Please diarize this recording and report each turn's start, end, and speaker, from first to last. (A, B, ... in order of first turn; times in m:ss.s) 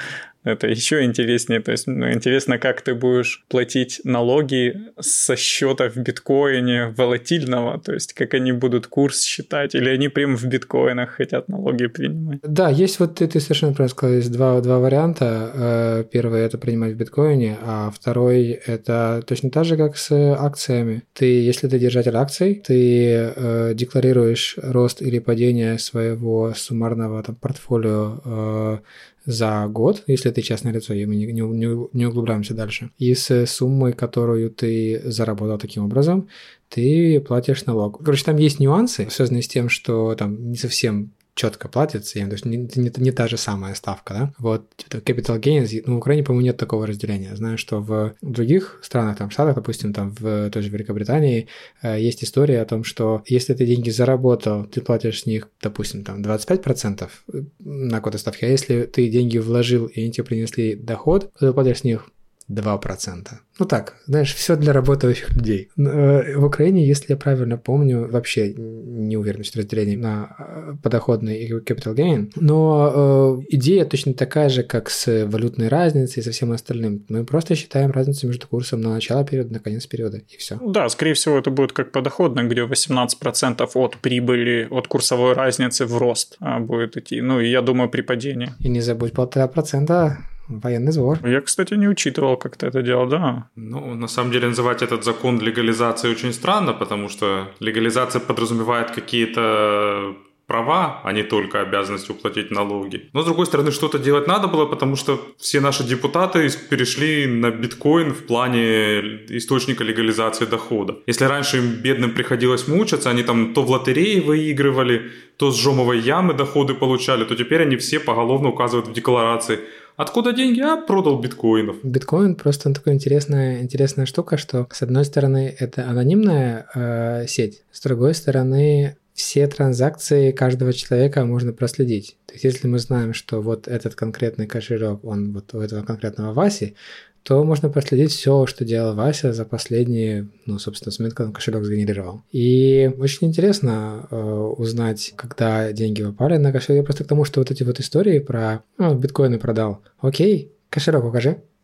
0:00.4-0:12.4 A
0:12.4-1:20.6 B
1:20.6-1:28.6 A
1:28.6-1:31.2 B
1:31.2-1:33.5 A
1:33.6-2:01.8 C
2:01.8-2:31.4 B